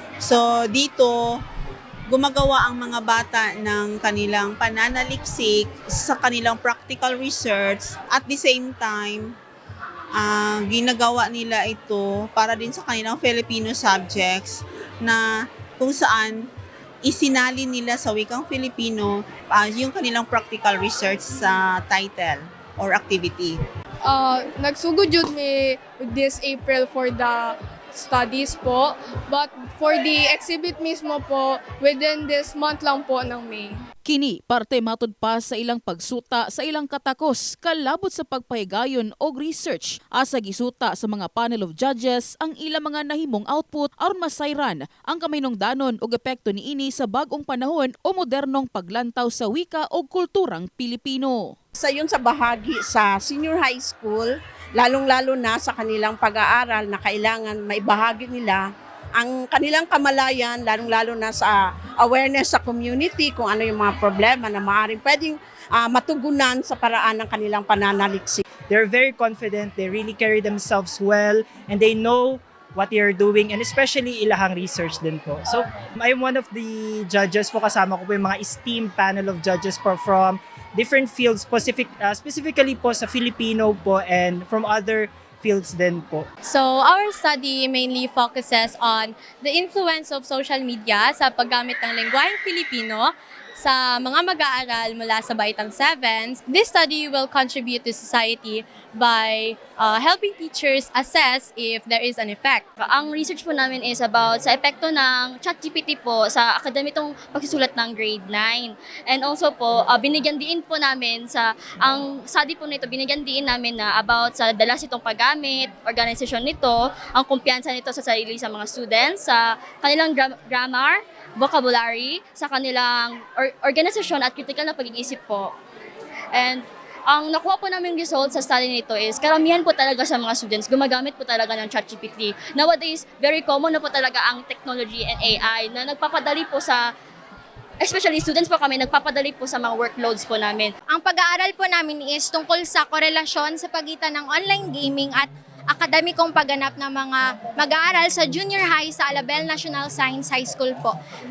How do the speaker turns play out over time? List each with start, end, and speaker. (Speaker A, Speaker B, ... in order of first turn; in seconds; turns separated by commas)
Speaker A: 0.2-1.4, Speaker A: 2.1-9.3, Speaker A: 10.2-15.3, Speaker A: 15.8-16.5, Speaker A: 17.0-23.6, Speaker B: 24.1-33.7, Speaker C: 34.1-51.5, Speaker D: 51.8-58.6, Speaker D: 59.2-68.4, Speaker E: 68.7-86.3, Speaker F: 86.5-102.6, Speaker G: 102.8-125.5, Speaker G: 126.3-136.8, Speaker G: 137.8-140.7, Speaker H: 140.9-151.0